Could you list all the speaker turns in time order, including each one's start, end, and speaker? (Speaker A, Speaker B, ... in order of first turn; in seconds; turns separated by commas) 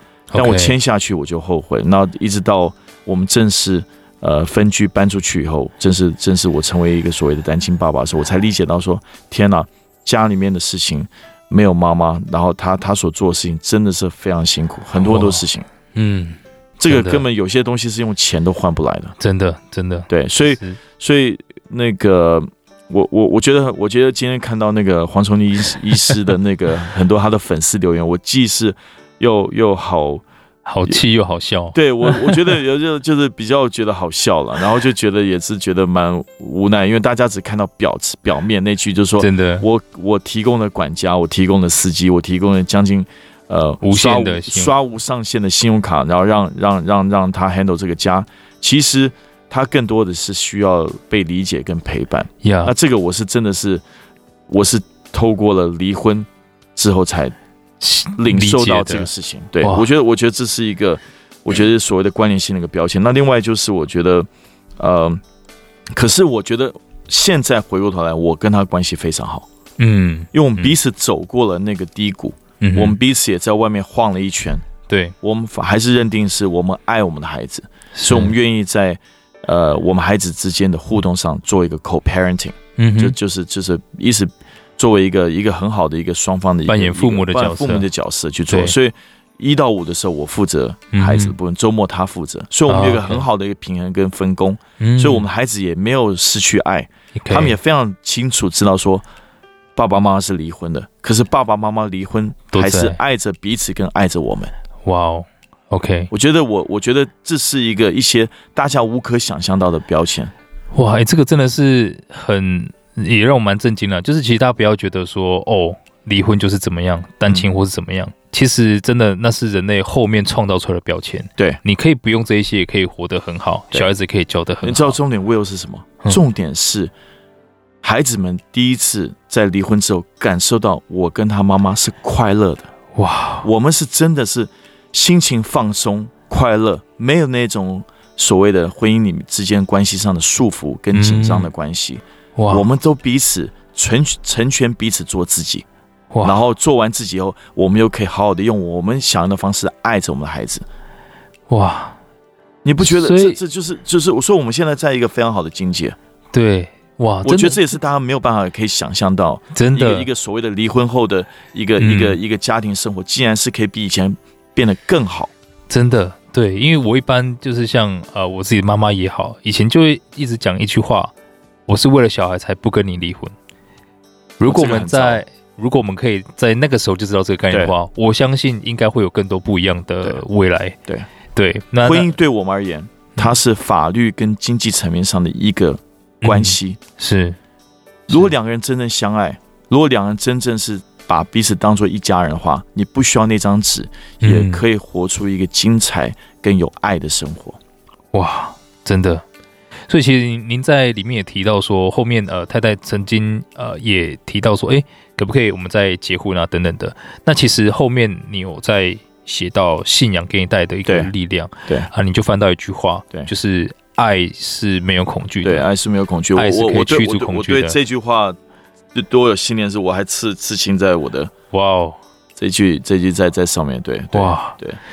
Speaker A: 0.3-0.7, Speaker B: 0.3-15.7, Speaker A: 15.0-15.4, Speaker A: 15.9-17.2, Speaker B: 16.8-19.1, Speaker A: 19.2-20.8, Speaker B: 20.1-30.2, Speaker A: 30.6-32.5, Speaker B: 31.7-53.8, Speaker A: 39.2-39.6, Speaker A: 43.8-44.7, Speaker A: 52.4-52.7, Speaker B: 54.5-57.3, Speaker A: 57.8-59.1, Speaker B: 58.1-64.3, Speaker A: 59.6-59.9, Speaker B: 64.8-65.2, Speaker B: 65.9-69.5, Speaker A: 69.8-70.7, Speaker B: 70.3-74.7, Speaker A: 72.6-73.0, Speaker A: 74.9-75.1, Speaker B: 75.2-99.0, Speaker A: 77.9-78.3, Speaker A: 82.8-83.2, Speaker A: 86.7-87.9, Speaker A: 88.5-88.7, Speaker A: 90.9-91.3, Speaker A: 92.7-93.2, Speaker A: 94.8-95.2, Speaker A: 97.2-97.6, Speaker B: 99.8-104.5, Speaker A: 102.5-103.0, Speaker A: 104.8-106.1, Speaker B: 106.1-110.3, Speaker A: 110.7-125.0, Speaker B: 124.6-126.9, Speaker B: 127.8-132.7, Speaker A: 132.9-133.4, Speaker B: 133.4-145.6, Speaker A: 140.9-141.5, Speaker A: 142.3-142.6, Speaker A: 146.1-146.4, Speaker B: 146.2-150.6, Speaker A: 151.5-152.0, Speaker B: 152.6-155.9, Speaker A: 152.8-153.4, Speaker A: 156.3-157.6, Speaker B: 157.2-165.3, Speaker A: 159.5-160.1, Speaker A: 161.8-162.2, Speaker A: 165.7-171.1, Speaker A: 171.7-173.3, Speaker A: 174.4-180.8, Speaker B: 174.4-175.2, Speaker A: 181.3-182.2, Speaker B: 181.8-186.8, Speaker A: 186.2-187.4, Speaker B: 188.1-197.6, Speaker A: 194.2-194.6, Speaker A: 198.1-199.2, Speaker A: 199.9-215.7, Speaker B: 210.8-211.1, Speaker B: 215.4-218.4, Speaker A: 216.3-217.8, Speaker B: 218.9-221.3, Speaker A: 221.5-222.0, Speaker B: 222.4-224.8, Speaker A: 224.1-224.6